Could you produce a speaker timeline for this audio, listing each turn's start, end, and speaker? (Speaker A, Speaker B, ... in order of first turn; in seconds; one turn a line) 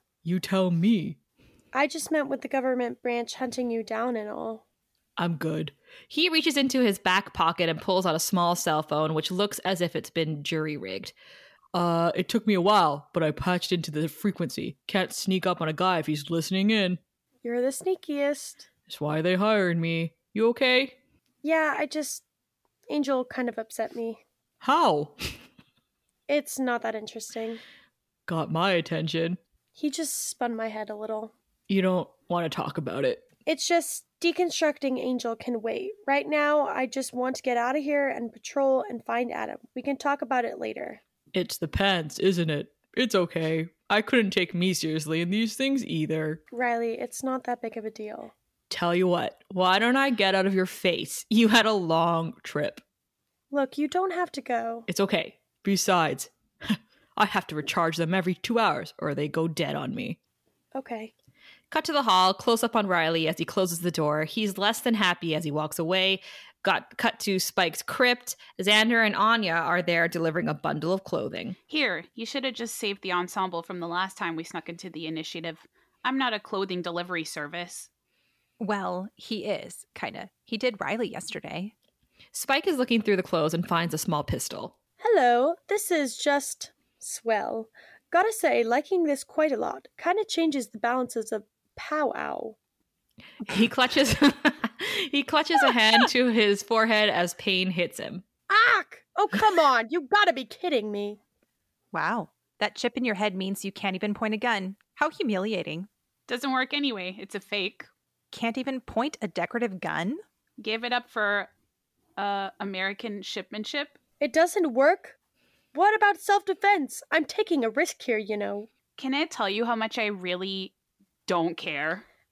Speaker A: 0.2-1.2
Speaker B: 1.7-4.6
Speaker A: 5.2-5.7
Speaker C: 6.1-11.1
Speaker A: 11.7-17.0
Speaker B: 17.4-18.6
Speaker A: 18.9-21.0
Speaker B: 21.4-22.2
Speaker B: 22.9-24.2
Speaker A: 24.6-25.1
Speaker B: 26.3-27.6
Speaker A: 28.3-29.4
Speaker B: 29.8-31.3
Speaker A: 31.7-33.3
Speaker B: 33.5-41.0
Speaker A: 41.3-46.4
Speaker B: 46.5-48.3
Speaker A: 48.7-49.6
Speaker C: 49.5-52.8
Speaker B: 53.5-54.9
Speaker A: 54.9-59.9
Speaker C: 57.2-60.1
Speaker B: 60.7-61.1
Speaker C: 61.7-71.5
Speaker D: 71.7-77.9
Speaker E: 78.6-81.7
Speaker C: 82.3-84.7
Speaker B: 85.0-92.5
Speaker C: 93.5-98.2
Speaker B: 98.5-101.2
Speaker E: 101.9-105.9
Speaker D: 106.3-107.9
Speaker E: 108.3-110.2
Speaker D: 110.6-111.5
Speaker D: 112.2-114.0
Speaker B: 114.2-115.2
Speaker B: 115.7-118.7
Speaker D: 119.0-120.7
Speaker D: 121.3-122.0